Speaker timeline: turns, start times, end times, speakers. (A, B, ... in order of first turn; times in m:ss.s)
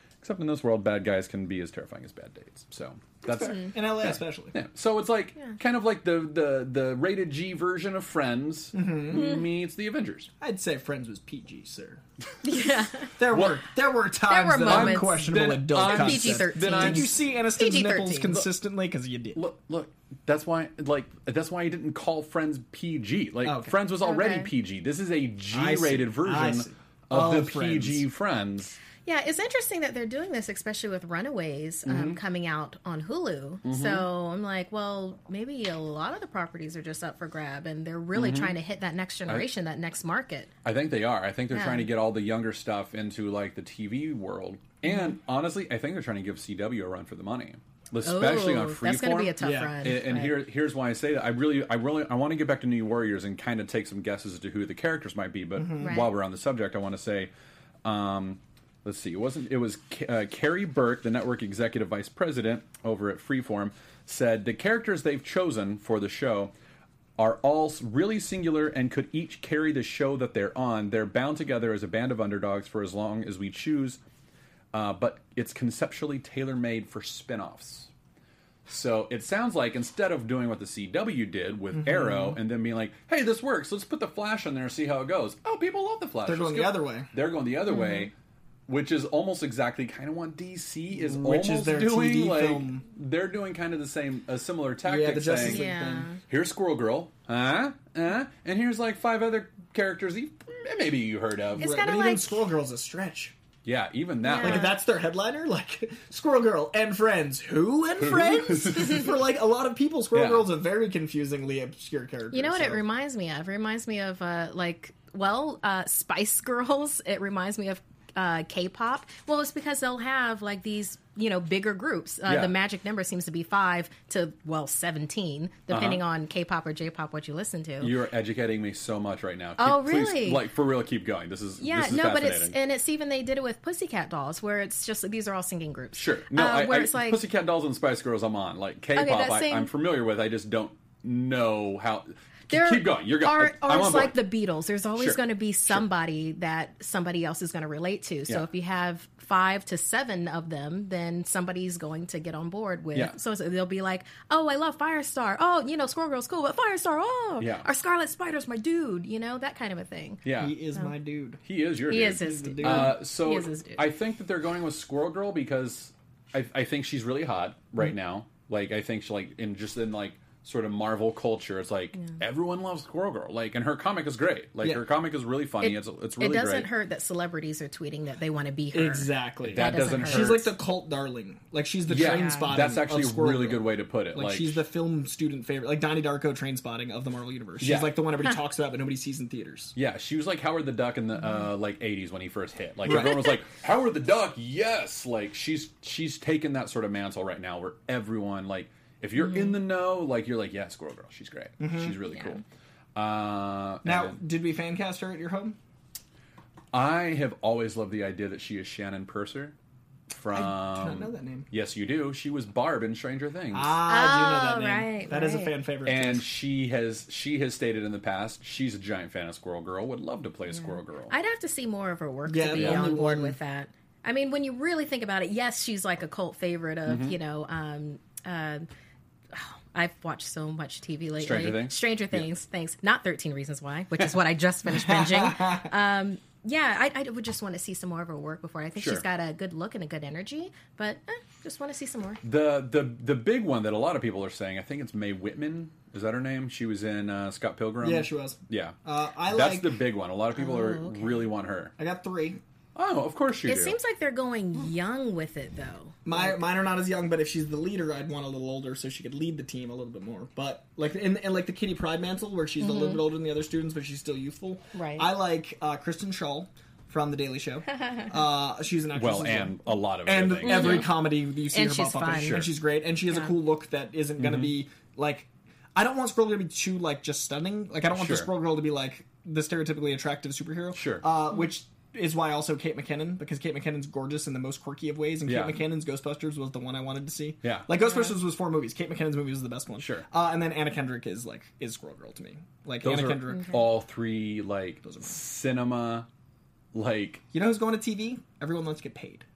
0:00.2-0:10.3 A
0:03.2-0:04.5 B
0:03.3-0:03.7 C
0:08.7-0:09.4 B
0:09.1-0:09.4 C
0:10.4-0:12.0 B
0:12.4-0:13.2 C
0:13.2-0:19.4 B
0:13.3-0:13.6 A
0:14.3-0:18.4 C
0:14.6-0:17.1 A
0:19.3-0:28.8 A
0:23.4-0:23.7 B
0:24.0-0:24.5 C
0:25.5-0:28.0 B
0:29.0-0:40.5 C
0:31.8-0:32.2 A
0:33.6-0:34.1 A
0:38.1-0:38.5 A
0:40.6-0:57.3 A
0:41.5-0:41.9 C
0:44.9-0:45.1 C
0:48.0-0:50.3 C
0:49.4-0:49.9 B
0:55.6-0:56.0 B
0:55.8-0:56.1 C
0:57.8-1:06.5 A
1:07.2-1:14.0 A
1:14.7-1:17.9 A
1:18.7-1:28.1 A
1:21.7-1:22.4 B
1:26.2-1:27.1 B
1:27.7-1:28.1 C
1:28.7-1:35.6 A
1:30.9-1:32.8 B
1:34.8-1:36.1 B
1:35.4-1:36.2 C
1:36.3-1:41.7 A
1:41.6-1:43.3 B
1:41.6-1:42.4 C
1:43.6-1:44.8 A
1:44.2-1:44.7 C
1:44.4-1:52.8 B
1:48.0-1:49.1 A
1:50.1-1:50.5 A
1:52.3-2:07.9 C
2:02.2-2:02.5 A
2:05.7-2:06.0 A
2:07.8-2:12.6 A
2:09.6-2:10.4 C
2:11.6-2:17.2 C
2:15.9-2:24.2 A
2:18.9-2:19.7 C
2:22.5-2:40.2 C
2:25.0-2:25.8 A
2:37.4-2:37.7 A
2:40.2-2:40.5 A
2:40.4-2:41.4 B
2:41.4-2:56.7 A
2:41.9-2:43.8 C
2:42.2-2:43.0 B
2:55.6-3:00.5 C
2:58.7-3:09.7 B
2:59.4-3:00.5 A
3:01.9-3:04.6 A
3:02.0-3:02.5 C
3:07.6-3:08.0 A
3:09.7-3:22.4 A
3:12.8-3:13.2 B
3:19.2-3:19.6 C
3:21.6-3:22.0 B
3:22.1-3:22.4 C
3:22.9-3:24.2 A
3:23.8-3:25.6 B
3:26.7-3:29.5 A
3:30.1-3:33.8 A
3:30.3-3:31.5 B
3:33.5-3:36.3 B
3:33.9-3:35.5 C
3:35.8-3:41.1 A
3:40.5-3:48.7 C
3:42.3-3:43.4 B
3:42.6-3:42.9 A
3:46.8-3:47.1 A
3:49.3-4:02.2 C
3:51.2-3:52.2 A
3:54.7-3:55.7 B
3:58.8-3:59.0 A
4:02.2-4:08.8 A
4:07.8-4:09.8 B
4:09.3-4:11.7 A
4:10.4-4:11.2 C
4:11.8-4:12.4 B
4:12.7-4:13.8 A
4:13.4-4:16.0 C
4:16.0-4:53.5 B
4:22.6-4:23.0 C
4:24.7-4:25.1 C
4:28.9-4:30.9 A
4:30.4-4:32.4 C
4:32.2-4:32.5 A
4:34.2-4:34.5 A
4:37.9-4:38.3 A
4:40.7-4:41.0 A
4:45.2-4:45.6 A
4:47.4-4:47.7 A
4:49.8-4:50.0 A
4:52.8-4:56.0 A
4:53.3-4:53.6 C
4:54.8-4:55.1 B
4:56.7-4:57.2 A
4:57.3-4:59.2 B